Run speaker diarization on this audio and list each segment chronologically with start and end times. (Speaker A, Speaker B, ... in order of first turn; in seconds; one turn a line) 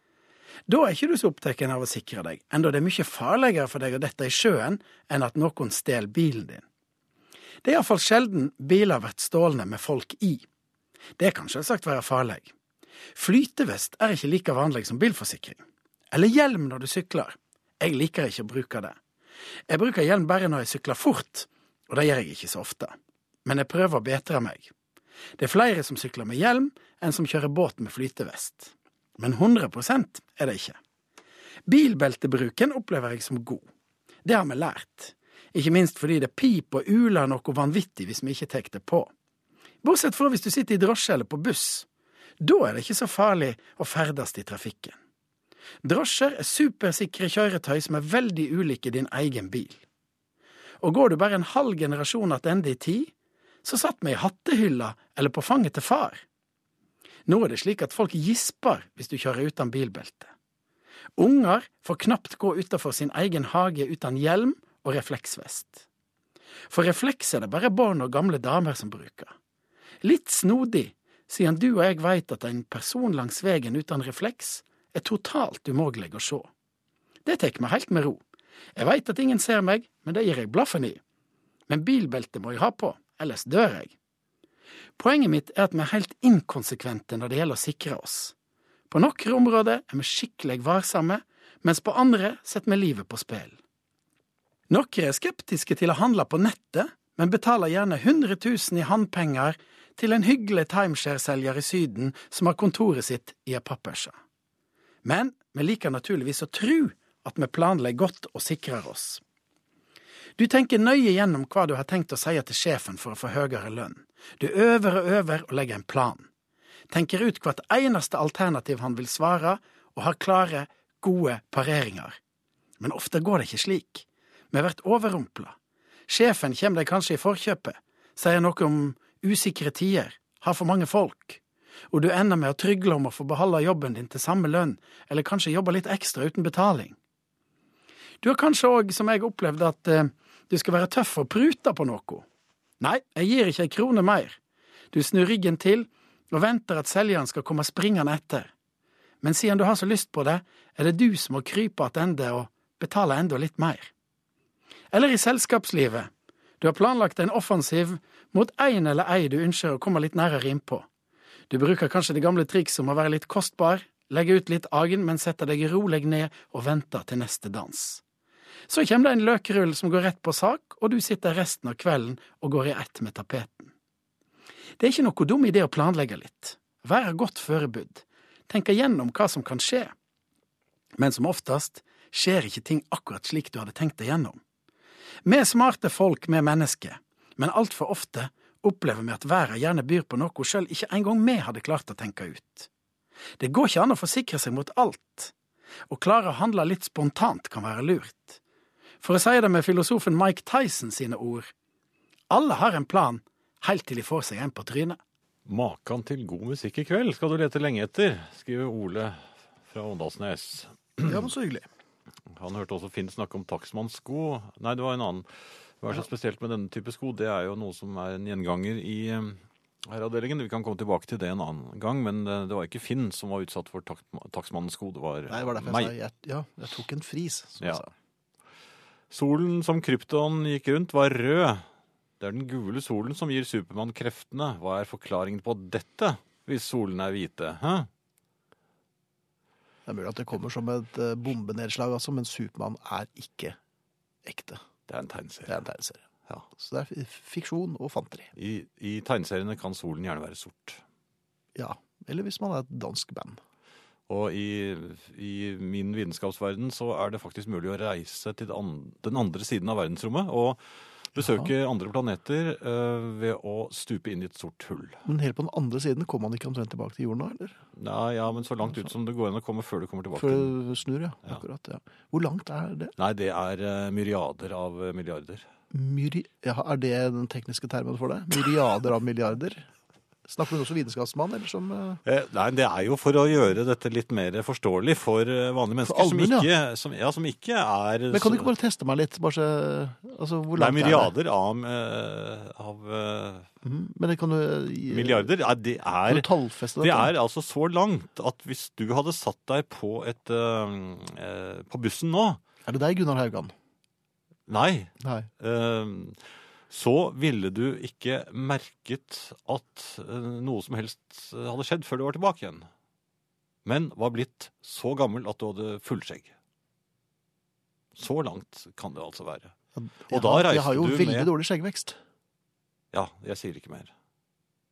Speaker A: 0.7-6.6
Speaker A: 7.6-10.4
Speaker A: 11.2-12.5
Speaker A: 13.2-19.0
Speaker A: 19.7-22.9
Speaker A: 23.4-24.7
Speaker A: 25.4-30.8
Speaker A: 31.7-33.6
Speaker A: 34.2-39.1
Speaker A: 39.8-41.9
Speaker A: 42.4-45.0
Speaker A: 45.8-49.8
Speaker A: 50.8-53.1
Speaker A: 53.6-56.2
Speaker A: 57.3-60.3
Speaker A: 61.2-65.8
Speaker A: 66.7-69.3
Speaker A: 70.0-76.5
Speaker A: 77.2-78.2
Speaker A: 78.8-81.0
Speaker A: 81.7-83.9
Speaker A: 85.0-88.3
Speaker A: 88.9-93.6
Speaker A: 94.7-104.1
Speaker A: 105.0-109.2
Speaker A: 110.4-116.3
Speaker A: 116.9-122.2
Speaker A: 122.8-125.5
Speaker A: 126.1-131.4
Speaker A: 131.9-137.0
Speaker A: 138.2-142.2
Speaker A: 142.8-144.4
Speaker A: 144.9-148.5
Speaker A: 149.2-153.9
Speaker A: 154.9-156.1
Speaker A: 156.6-160.9
Speaker A: 161.5-168.0
Speaker A: 168.7-173.7
Speaker A: 174.8-179.9
Speaker A: 181.0-184.4
Speaker A: 185.2-192.7
Speaker A: 193.4-195.3
Speaker A: 195.9-198.4
Speaker A: 199.0-201.5
Speaker A: 202.3-205.0
Speaker B: 205.5-211.3
Speaker C: 211.0-211.7
Speaker B: 212.3-225.9
Speaker C: 225.3-227.9
Speaker B: 229.1-231.7
Speaker B: 232.2-237.9
Speaker C: 239.9-243.6
Speaker C: 244.3-244.6
Speaker B: 244.9-245.5
Speaker C: 245.5-246.0
Speaker C: 246.5-248.3
Speaker B: 248.4-250.8
Speaker C: 251.6-253.4
Speaker B: 254.1-265.1
Speaker C: 265.1-267.6
Speaker B: 267.8-270.5
Speaker C: 270.1-272.9
Speaker B: 273.0-275.5
Speaker C: 275.7-279.7
Speaker C: 280.3-282.0
Speaker B: 282.1-288.5
Speaker C: 285.9-286.5
Speaker C: 288.1-291.1
Speaker B: 290.6-293.5
Speaker C: 293.6-295.3
Speaker B: 294.9-296.3
Speaker C: 296.1-297.1
Speaker B: 296.8-302.4
Speaker C: 302.7-303.5
Speaker B: 304.5-312.7
Speaker C: 305.0-305.3
Speaker B: 313.6-316.3
Speaker B: 317.9-319.5
Speaker C: 319.8-322.0
Speaker B: 320.1-321.3
Speaker B: 322.9-323.9